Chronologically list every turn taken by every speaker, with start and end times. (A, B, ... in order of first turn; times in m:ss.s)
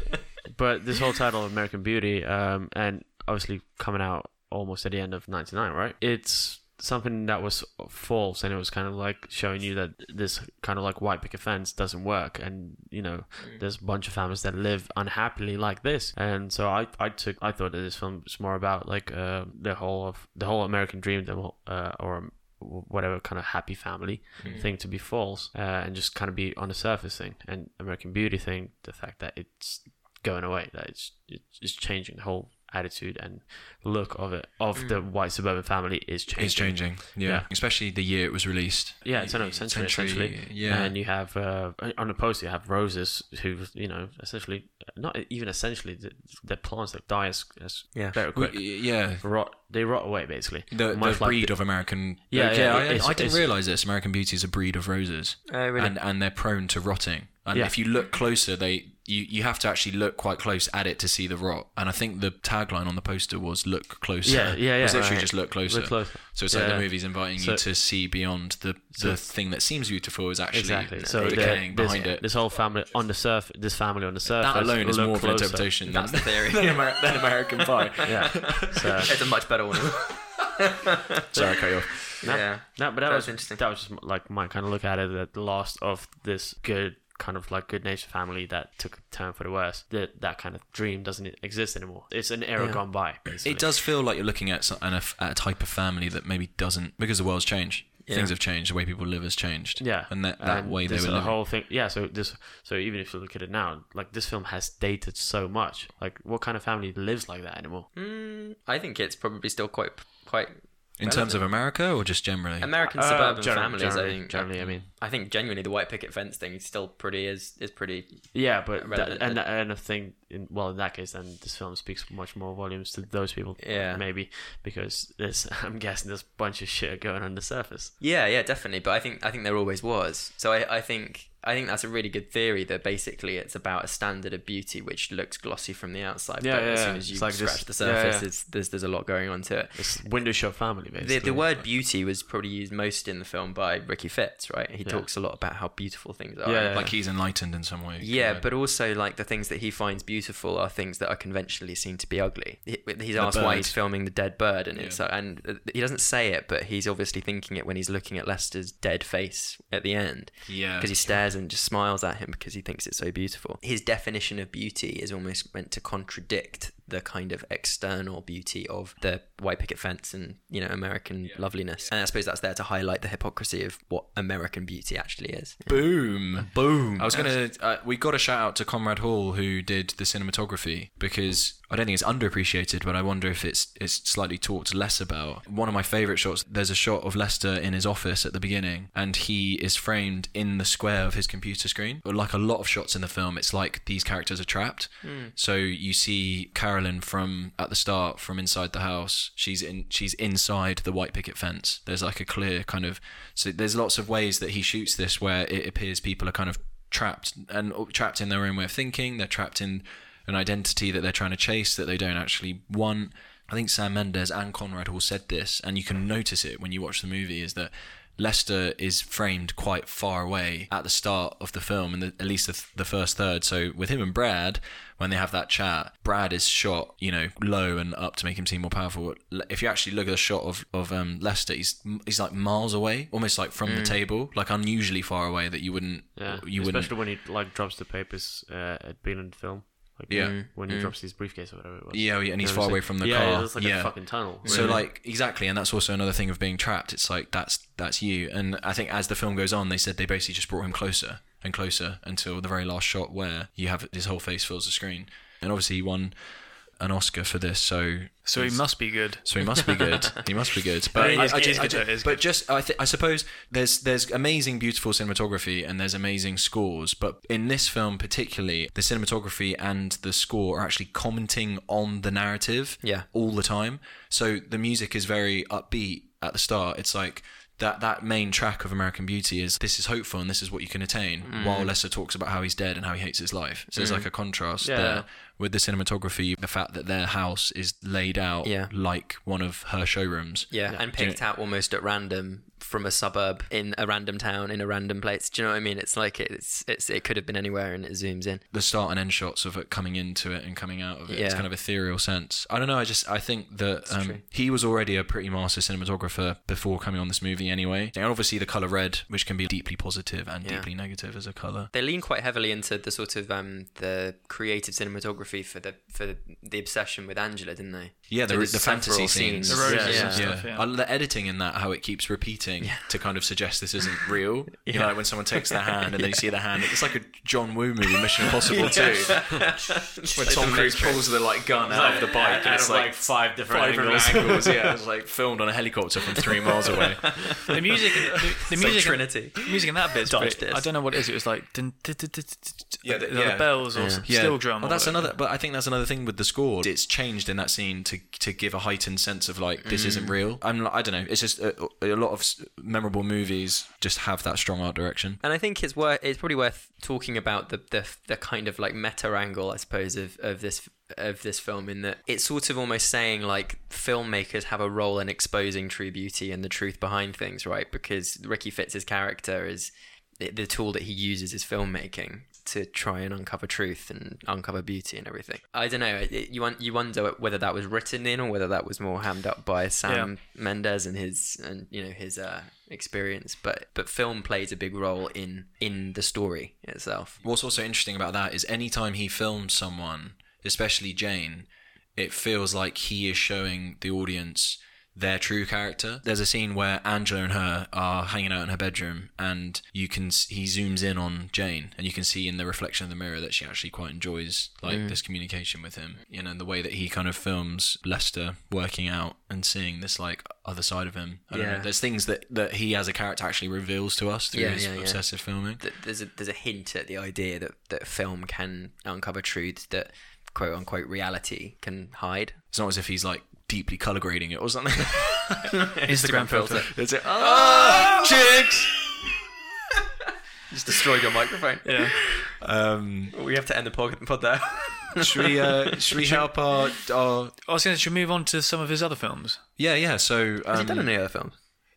0:00.5-0:37.5 A
0:13.4-0:13.6 B
0:24.4-0:24.7 B
0:34.7-0:35.0 B
0:36.4-0:41.0 C
0:39.0-0:53.5 A
0:48.3-0:49.2 C
0:50.7-1:12.3 C
0:55.5-0:56.0 B
1:04.2-1:07.7 A
1:04.9-1:05.3 B
1:08.9-1:09.3 A
1:10.5-1:15.7 A
1:11.0-1:11.7 B
1:14.3-1:19.2 C
1:15.8-1:21.0 B
1:18.0-1:19.1 A
1:21.3-1:22.3 C
1:21.3-1:33.7 A
1:22.2-1:23.6 B
1:32.6-1:32.8 B
1:33.4-1:41.4 C
1:38.0-1:38.3 B
1:39.8-1:47.9 A
1:47.9-1:51.6 B
1:51.0-1:52.7 C
1:52.6-1:59.4 B
1:52.8-1:54.9 A
1:58.3-2:08.0 A
2:03.6-2:04.0 B
2:08.0-2:20.4 B
2:16.4-2:18.3 A
2:19.8-2:21.5 A
2:21.0-2:27.0 B
2:26.4-2:27.0 A
2:26.7-2:28.5 C
2:28.0-2:57.3 B
2:33.2-2:33.8 C
2:34.8-2:35.0 C
2:40.5-2:41.3 C
2:55.7-3:57.0 C
3:15.0-3:15.3 B
3:53.6-3:54.0 B
3:56.2-4:04.8 A
4:00.1-4:00.4 C
4:00.1-4:01.0 B
4:01.9-4:16.2 C
4:04.4-4:04.8 B
4:16.8-4:51.2 C
4:18.2-4:19.8 D
4:21.0-4:22.2 D
4:21.0-4:21.7 A
4:41.2-4:41.7 B
4:43.7-4:44.1 B
4:44.6-4:45.1 A
4:48.4-4:48.7 B
4:50.5-4:58.4 B
4:58.5-5:11.7 C
5:01.1-5:01.5 B
5:03.9-5:04.2 B
5:10.4-5:10.7 B
5:11.7-5:20.3 B
5:18.1-5:29.6 C
5:19.5-5:20.7 D
5:19.6-5:20.3 A
5:22.6-5:22.9 B
5:24.6-5:26.8 B
5:28.2-5:31.2 B
5:30.2-5:30.7 A
5:30.2-5:37.7 C
5:31.6-5:34.7 A
5:36.8-5:37.5 B
5:37.5-5:45.2 D
5:38.5-5:39.5 B
5:40.0-5:40.7 B
5:42.8-5:55.2 C
5:43.7-5:44.1 B
5:49.6-5:50.2 B
5:55.2-6:27.2 B
6:19.8-6:20.1 D
6:27.2-6:55.6 C
6:44.7-6:45.0 B
6:51.3-6:51.7 B
6:54.3-7:02.4 B
7:02.5-7:05.5 C
7:05.6-7:08.3 B
7:05.9-7:06.8 D
7:06.7-7:08.9 C
7:10.5-7:12.4 B
7:11.6-7:12.1 D
7:12.4-7:13.2 C
7:13.1-7:16.1 B
7:15.0-7:17.4 C
7:16.0-7:16.3 D
7:17.5-7:19.4 D
7:19.6-7:20.9 C
7:20.5-7:21.4 B